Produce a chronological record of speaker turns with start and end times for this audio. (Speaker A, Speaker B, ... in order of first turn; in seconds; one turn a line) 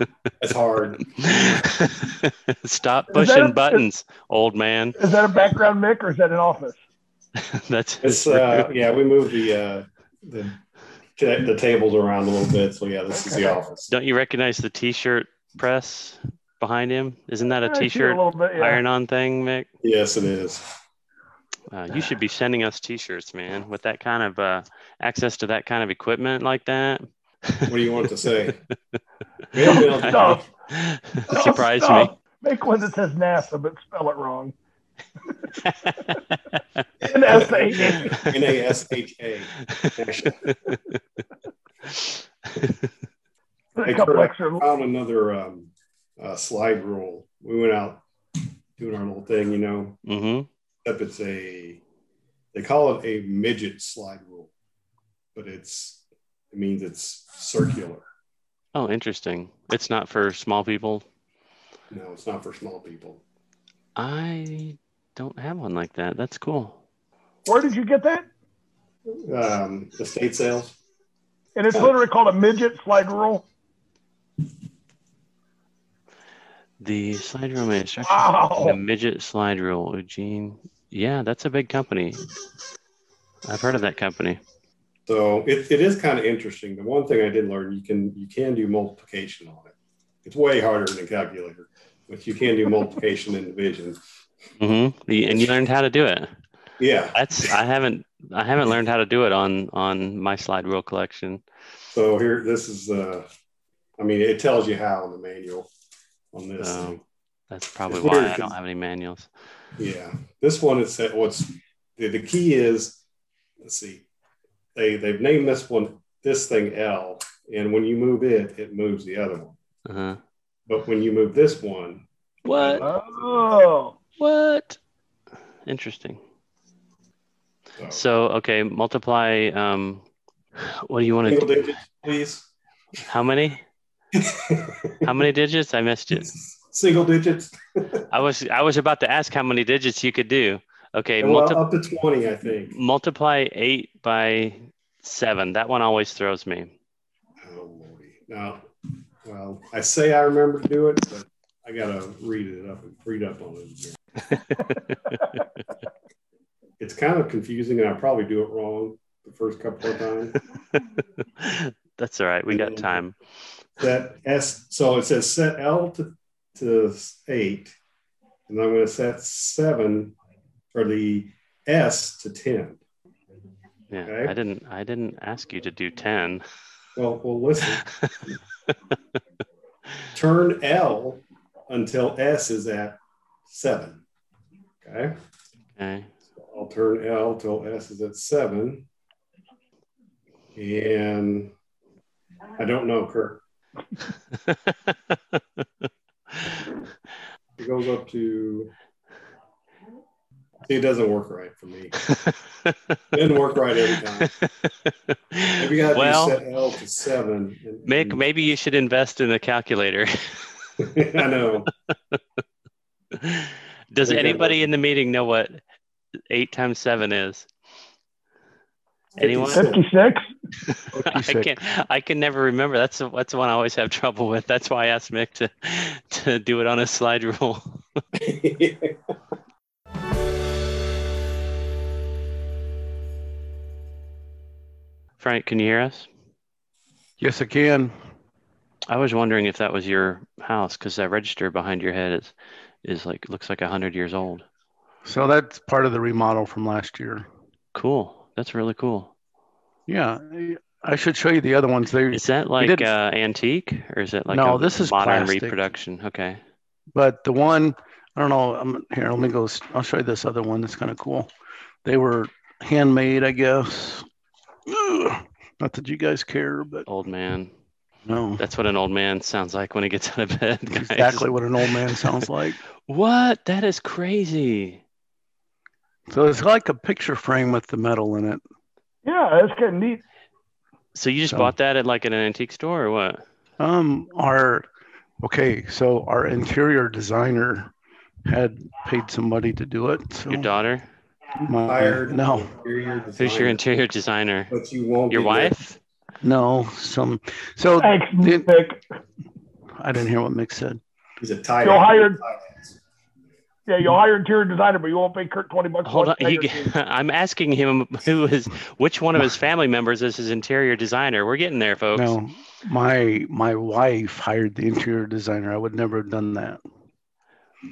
Speaker A: 0.4-1.1
Speaker B: 1.1-5.0
Speaker C: 3.1-3.8
Speaker C: 5.0-6.8
Speaker B: 7.4-8.7
Speaker A: 8.0-10.6
Speaker A: 11.2-13.9
Speaker C: 13.3-13.6
Speaker B: 13.9-19.7
Speaker C: 17.6-18.8
Speaker A: 19.8-20.6
Speaker B: 21.7-28.1
Speaker A: 27.7-28.6
Speaker A: 29.5-30.4
Speaker B: 29.6-32.1
Speaker C: 29.6-30.4
Speaker C: 31.3-34.5
Speaker B: 35.6-36.2
Speaker A: 37.0-40.7
Speaker C: 37.1-38.3
Speaker B: 37.7-38.4
Speaker B: 39.7-40.7
Speaker B: 41.9-42.9
Speaker C: 43.8-44.7
Speaker A: 43.8-48.0
Speaker A: 48.8-50.0
Speaker B: 50.1-50.5
Speaker A: 50.9-51.8
Speaker A: 52.5-54.5
Speaker A: 55.4-56.0
Speaker A: 56.5-58.1
Speaker B: 58.8-61.0
Speaker A: 61.9-63.2
Speaker B: 64.0-66.8
Speaker C: 67.5-68.3
Speaker A: 69.1-70.8
Speaker C: 71.6-73.4
Speaker B: 76.8-82.3
Speaker C: 78.0-78.8
Speaker B: 83.5-84.4
Speaker A: 85.1-89.7
Speaker A: 90.2-94.0
Speaker B: 94.6-96.3
Speaker A: 96.8-97.2
Speaker B: 97.1-101.4
Speaker A: 101.9-103.3
Speaker A: 104.0-105.7
Speaker A: 106.3-107.0
Speaker B: 106.6-109.3
Speaker A: 107.9-108.5
Speaker A: 109.8-113.0
Speaker A: 113.6-114.0
Speaker A: 114.8-119.6
Speaker B: 119.9-120.2
Speaker A: 120.7-123.2
Speaker B: 122.5-122.8
Speaker C: 122.8-124.0
Speaker B: 124.2-124.8
Speaker B: 125.7-126.2
Speaker B: 127.9-130.0
Speaker B: 130.6-131.8
Speaker A: 131.3-132.5
Speaker B: 133.0-133.6
Speaker A: 134.1-135.2
Speaker B: 135.0-136.3
Speaker A: 136.2-138.0
Speaker B: 138.1-141.6
Speaker A: 141.2-142.7
Speaker B: 142.7-146.7
Speaker A: 147.4-148.7
Speaker A: 149.2-154.0
Speaker B: 154.3-155.2
Speaker A: 156.8-160.4
Speaker B: 160.8-163.2
Speaker A: 162.5-162.9
Speaker A: 163.8-167.8
Speaker A: 168.5-170.2
Speaker A: 170.7-172.8
Speaker B: 173.9-176.4
Speaker A: 174.0-174.3
Speaker A: 177.0-177.8
Speaker A: 180.1-184.0
Speaker A: 184.8-185.2
Speaker B: 185.8-186.1
Speaker A: 186.4-188.9
Speaker A: 190.6-191.5
Speaker A: 192.6-193.4
Speaker B: 194.5-195.2
Speaker A: 197.6-198.7
Speaker A: 200.7-201.9
Speaker B: 202.1-202.8
Speaker A: 203.1-204.3
Speaker B: 204.2-206.4
Speaker A: 205.6-208.2
Speaker B: 207.9-210.4
Speaker A: 210.8-211.7
Speaker B: 213.1-215.6
Speaker A: 214.1-214.6
Speaker B: 216.3-217.5
Speaker A: 219.2-219.8
Speaker B: 219.2-219.7
Speaker C: 219.5-220.3
Speaker B: 220.7-227.8
Speaker D: 220.9-221.5
Speaker A: 228.2-229.0
Speaker B: 235.2-236.1
Speaker D: 237.2-237.9
Speaker B: 238.9-244.5
Speaker D: 245.1-247.2
Speaker B: 247.7-249.1
Speaker D: 249.9-252.9
Speaker B: 252.1-256.4
Speaker D: 254.3-255.7
Speaker D: 256.9-261.3
Speaker D: 261.8-264.1
Speaker D: 264.7-266.9
Speaker B: 266.9-267.5
Speaker D: 268.1-268.4
Speaker B: 268.4-272.3
Speaker D: 270.7-272.6
Speaker B: 272.9-274.8
Speaker D: 276.1-278.4
Speaker C: 279.1-280.0
Speaker B: 280.9-283.2
Speaker D: 283.6-284.7
Speaker D: 285.2-287.7
Speaker D: 288.2-290.5
Speaker B: 290.3-290.9
Speaker A: 291.4-293.6
Speaker D: 291.4-292.5
Speaker B: 293.2-294.5
Speaker A: 294.5-295.6
Speaker B: 295.1-295.8
Speaker D: 296.2-298.5
Speaker C: 297.8-298.8
Speaker D: 299.8-300.8
Speaker A: 301.2-302.8
Speaker C: 301.6-302.2
Speaker C: 303.7-306.7
Speaker B: 305.9-312.2
Speaker D: 311.9-316.6